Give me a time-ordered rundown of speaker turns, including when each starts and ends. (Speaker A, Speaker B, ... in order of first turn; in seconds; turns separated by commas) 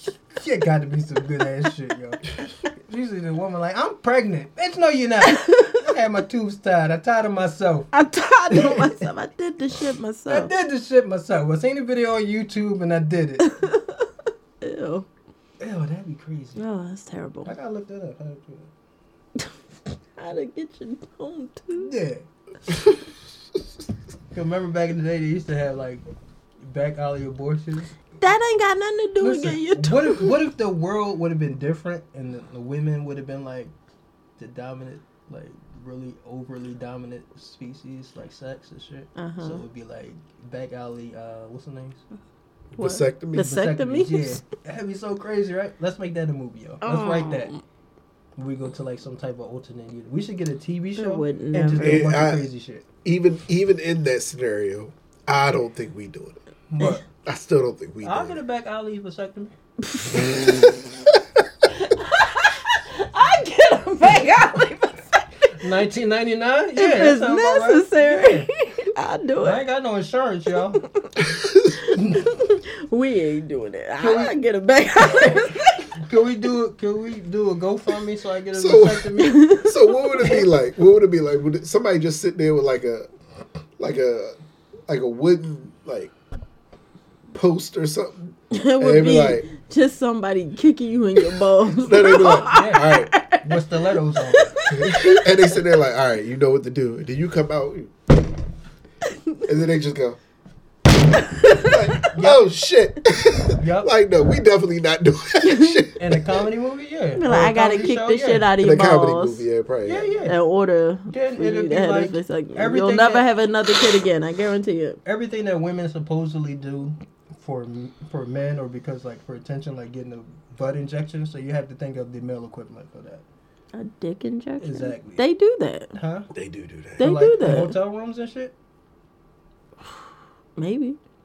Speaker A: 0.3-7.9, Speaker B: 5.2-5.8, Speaker B: 7.9-10.5, Speaker A: 8.5-9.1, Speaker A: 10.3-13.5, Speaker B: 13.4-14.1, Speaker B: 14.6-15.1, Speaker A: 15.6-16.6, Speaker B: 16.6-17.5, Speaker A: 17.4-18.7, Speaker B: 20.2-21.9, Speaker A: 21.7-22.3, Speaker A: 24.3-26.0, Speaker A: 26.6-27.9, Speaker B: 28.2-30.3, Speaker A: 29.2-33.7, Speaker A: 34.4-42.0, Speaker B: 39.1-39.6, Speaker B: 42.8-44.4, Speaker C: 42.8-43.4, Speaker A: 43.3-47.5, Speaker B: 46.8-47.6, Speaker A: 48.4-52.8, Speaker B: 51.0-52.0, Speaker C: 51.8-52.5, Speaker C: 53.0-56.4, Speaker A: 56.7-57.0, Speaker C: 57.2-58.4, Speaker A: 58.0-59.5, Speaker B: 59.8-60.5, Speaker B: 61.8-65.5, Speaker A: 65.5-68.5, Speaker B: 66.8-69.6, Speaker A: 69.4-70.8, Speaker C: 71.3-71.7, Speaker B: 71.8-75.9, Speaker A: 71.9-72.2, Speaker A: 74.0-74.3, Speaker A: 75.0-79.5, Speaker C: 78.5-83.1, Speaker B: 79.2-80.5, Speaker C: 83.8-84.3, Speaker C: 84.9-86.1, Speaker C: 87.3-89.5, Speaker B: 88.5-93.5, Speaker C: 91.8-93.1, Speaker A: 92.5-94.6, Speaker B: 94.1-95.2, Speaker C: 94.7-97.9, Speaker C: 99.4-100.2, Speaker B: 101.3-102.0, Speaker C: 101.5-106.3, Speaker A: 102.1-102.4, Speaker A: 103.6-103.9, Speaker B: 105.4-105.9, Speaker A: 106.0-108.5, Speaker B: 107.1-109.4, Speaker C: 108.6-110.1, Speaker A: 109.8-110.3, Speaker B: 110.2-115.0, Speaker A: 111.1-113.3, Speaker A: 115.0-123.2, Speaker B: 123.7-125.9, Speaker A: 124.6-125.2, Speaker A: 125.9-126.3, Speaker C: 126.3-127.0, Speaker B: 127.0-127.8, Speaker A: 127.0-128.5, Speaker B: 130.6-131.0